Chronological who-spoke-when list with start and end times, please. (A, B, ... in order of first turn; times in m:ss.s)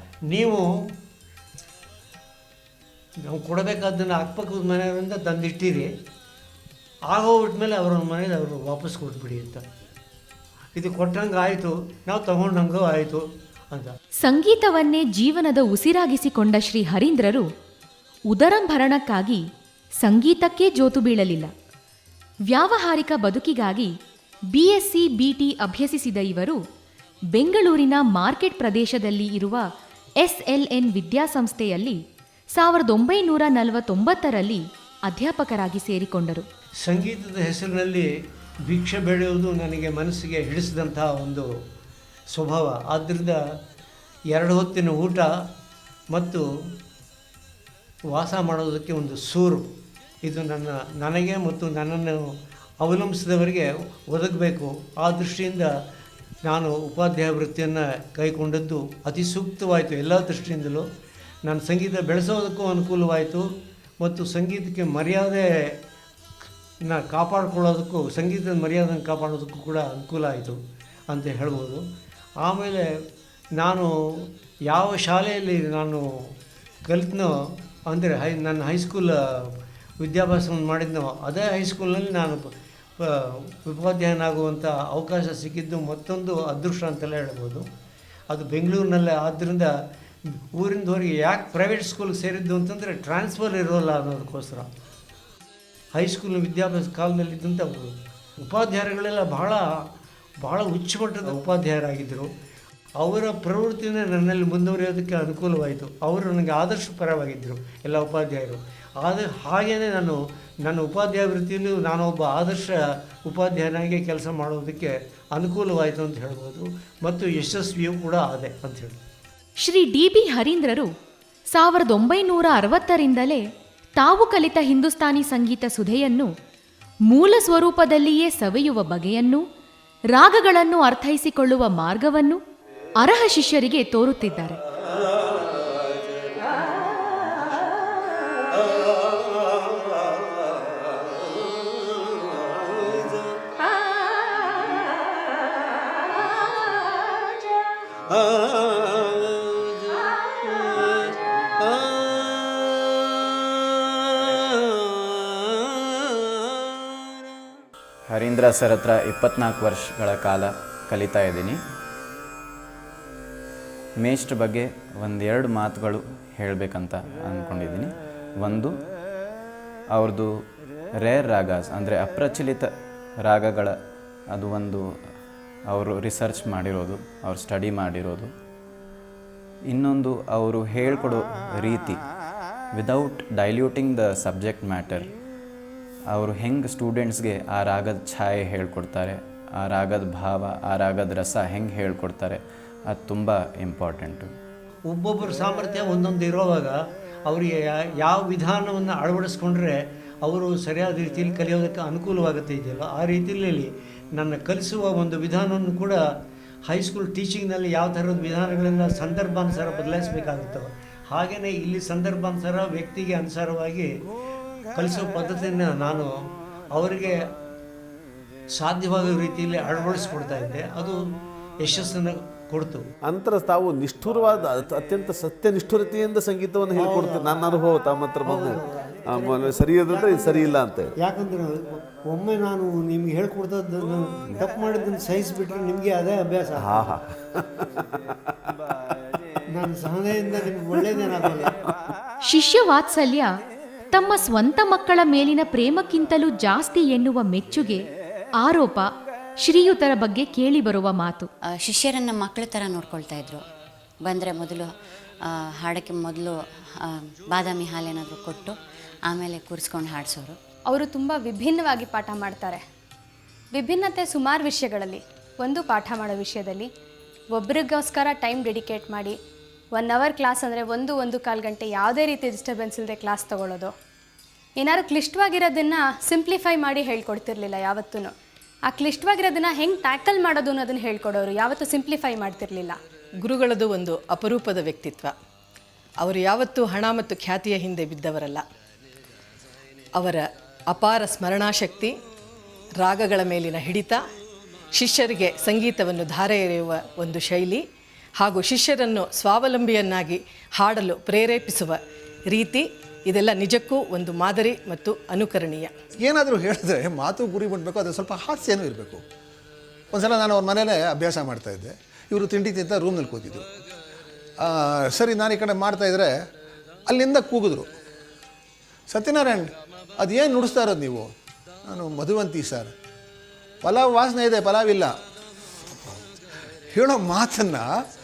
0:00.3-0:00.7 A
0:03.2-0:05.9 A
0:07.1-0:09.6 A
0:10.8-0:13.9 A
0:14.2-0:17.4 B
0:18.3-0:19.4 B
0:20.0-0:21.5 B
0:22.5-0:23.9 B
0:24.5-0:26.6 B
0:27.3-0:29.6 B
0:30.2-0:32.0 B
0:32.5-0:36.5 B
0:36.8-0:38.1 A
0:38.7-0:41.5 A
0:42.3-0:43.4 A
0:44.3-0:45.3 A
0:46.1-0:46.4 A
0:48.1-0:49.7 A
0:50.2-0:52.3 A
0:52.8-0:55.7 A
0:56.5-1:00.8 A
1:01.5-1:03.5 A
1:04.0-1:05.4 A
1:06.9-1:11.8 A
1:12.4-1:12.8 A
1:13.6-1:16.3 A
1:16.9-1:17.3 A
1:17.9-1:22.5 A
1:23.0-1:27.7 A
1:28.3-1:29.7 A
1:30.5-1:34.7 A
1:35.9-1:37.9 A
1:38.4-1:39.7 A
1:40.4-1:42.3 A
1:43.0-1:52.7 A
1:53.2-1:59.0 A
1:59.6-2:00.9 B
2:01.5-2:03.4 B
2:04.0-2:06.3 B
2:07.1-2:09.4 B
2:10.1-2:12.4 B
2:13.0-2:14.6 B
2:15.1-2:16.0 A
2:19.0-2:19.9 A
2:21.2-2:23.4 A
2:28.1-2:31.0 A
2:31.6-2:32.4 A
2:38.1-2:41.6 C
2:44.0-2:48.8 C
2:49.9-2:50.4 C
2:51.0-2:53.8 C
2:54.3-2:55.0 C
2:55.6-2:58.3 C
2:59.7-3:02.0 C
3:02.7-3:05.1 C
3:06.1-3:14.3 C
3:14.9-3:16.8 A
3:17.3-3:26.0 A
3:26.7-3:33.9 A
3:34.8-3:36.1 A
3:36.7-3:37.2 A
3:38.6-3:41.0 A
3:41.6-3:42.8 A
3:43.0-3:50.9 D
3:46.8-3:47.5 A
3:48.2-3:56.9 A
3:56.6-3:58.2 D
3:59.6-4:01.5 A
4:02.2-4:03.3 B
4:03.9-4:07.8 B
4:08.4-4:08.9 B
4:09.4-4:11.3 B
4:11.5-4:13.4 E
4:14.0-4:14.7 E
4:15.2-4:18.5 E
4:19.1-4:20.4 E
4:20.7-4:22.6 F
4:23.5-4:26.7 F
4:27.3-4:29.2 F
4:29.7-4:33.7 F
4:34.6-4:38.1 F
4:38.7-4:42.8 F
4:43.2-4:45.1 G
4:46.0-4:48.4 G
4:50.0-4:51.9 G
4:52.8-4:54.0 G
4:54.8-4:57.6 G
4:58.2-5:05.7 G
5:06.0-5:09.0 H
5:09.9-5:13.5 H
5:14.4-5:16.1 H
5:16.9-5:17.7 H
5:18.9-5:21.1 H
5:21.7-5:22.7 H
5:23.6-5:24.9 H
5:26.7-5:27.7 H